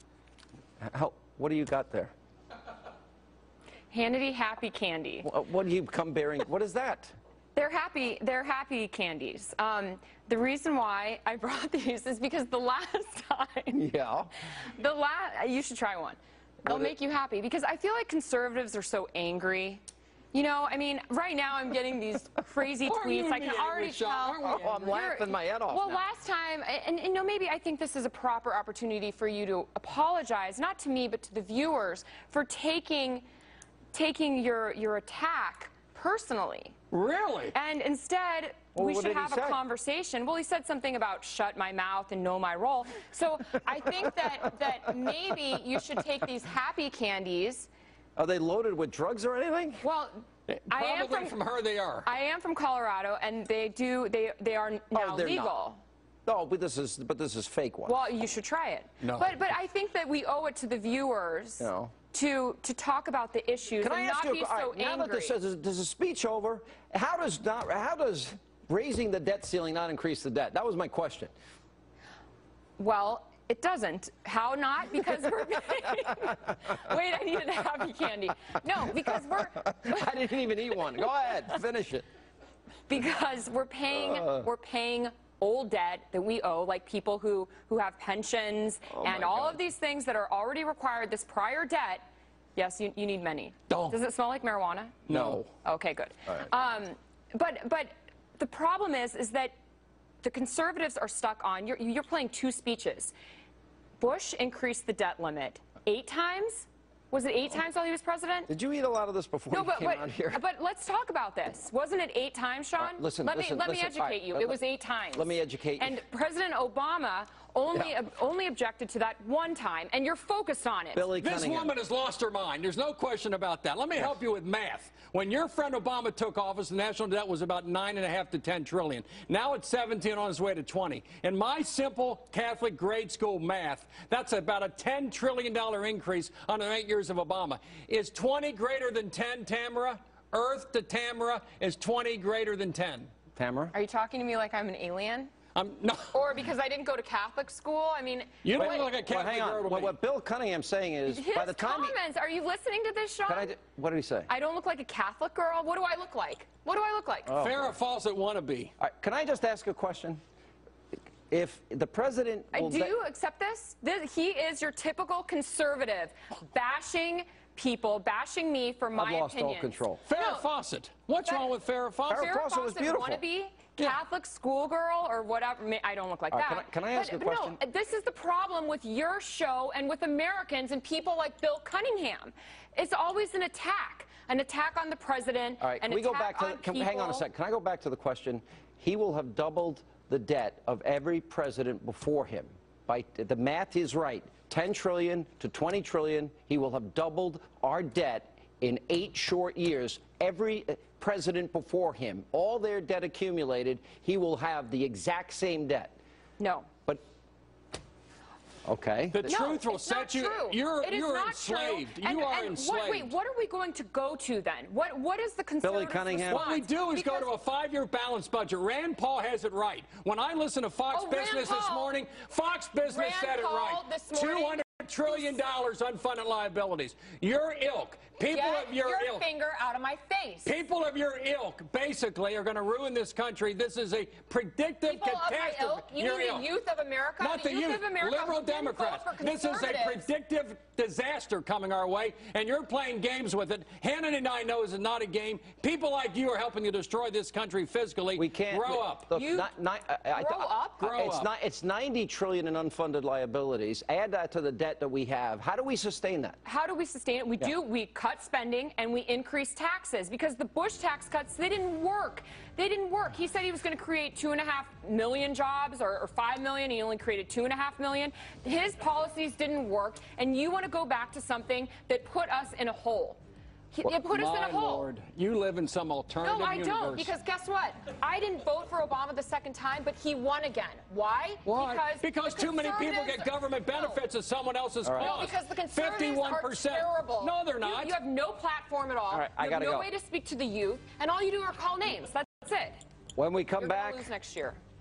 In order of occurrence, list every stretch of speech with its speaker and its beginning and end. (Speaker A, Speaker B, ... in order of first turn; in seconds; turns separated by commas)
Speaker A: 0.8-2.1, Speaker B: 3.9-5.3, Speaker A: 5.2-7.1, Speaker B: 7.5-13.8, Speaker A: 13.7-14.3, Speaker B: 14.5-33.2, Speaker A: 16.7-16.9, Speaker C: 22.8-25.1, Speaker A: 24.4-26.0, Speaker B: 33.9-36.8, Speaker C: 36.9-37.5, Speaker B: 37.5-47.7, Speaker A: 38.8-39.6, Speaker A: 48.2-49.8, Speaker B: 49.8-51.4, Speaker C: 50.5-52.1, Speaker B: 52.0-55.8, Speaker A: 54.9-55.5, Speaker A: 56.3-58.0, Speaker B: 57.9-65.4, Speaker C: 59.0-59.3, Speaker A: 61.6-61.9, Speaker A: 63.8-71.3, Speaker B: 72.8-80.0, Speaker A: 79.7-82.0, Speaker B: 82.9-95.0, Speaker A: 83.9-84.5, Speaker A: 88.9-89.6, Speaker C: 93.7-94.0, Speaker C: 95.1-95.4, Speaker A: 95.1-95.5, Speaker B: 95.6-99.5, Speaker B: 100.2-103.1, Speaker B: 104.0-108.5, Speaker A: 108.5-110.4, Speaker B: 109.5-121.1, Speaker A: 112.8-114.6, Speaker A: 115.1-116.0, Speaker A: 121.0-121.7, Speaker C: 121.2-143.1, Speaker A: 143.3-143.7, Speaker B: 143.7-145.3, Speaker C: 145.5-146.2, Speaker B: 146.1-148.9, Speaker C: 148.4-150.0, Speaker A: 148.6-152.0, Speaker B: 151.1-153.5, Speaker A: 153.3-154.3, Speaker B: 154.3-157.3, Speaker A: 157.3-157.7, Speaker C: 157.4-158.7, Speaker A: 158.8-160.2, Speaker A: 161.3-162.9, Speaker B: 162.5-170.5, Speaker A: 168.9-170.0, Speaker C: 170.0-172.3, Speaker B: 171.2-171.5, Speaker A: 172.1-173.2, Speaker B: 172.1-187.2, Speaker A: 176.3-177.6, Speaker A: 185.6-205.9, Speaker B: 206.4-206.7, Speaker A: 208.6-209.3, Speaker C: 209.1-213.1, Speaker B: 209.2-217.3, Speaker A: 215.6-216.5, Speaker C: 216.3-229.2, Speaker B: 220.9-222.0, Speaker B: 222.8-225.3, Speaker B: 228.2-230.5, Speaker C: 230.4-236.5, Speaker B: 234.8-240.1, Speaker C: 237.2-249.1, Speaker A: 248.2-256.4, Speaker B: 249.1-249.5, Speaker B: 250.1-251.0, Speaker C: 250.8-251.3, Speaker B: 256.4-273.2, Speaker B: 273.7-274.9, Speaker C: 273.8-277.1, Speaker B: 276.2-284.0, Speaker C: 281.4-288.0, Speaker A: 284.8-285.3, Speaker B: 285.0-292.8, Speaker A: 289.1-289.9, Speaker A: 293.2-294.1, Speaker B: 293.6-294.6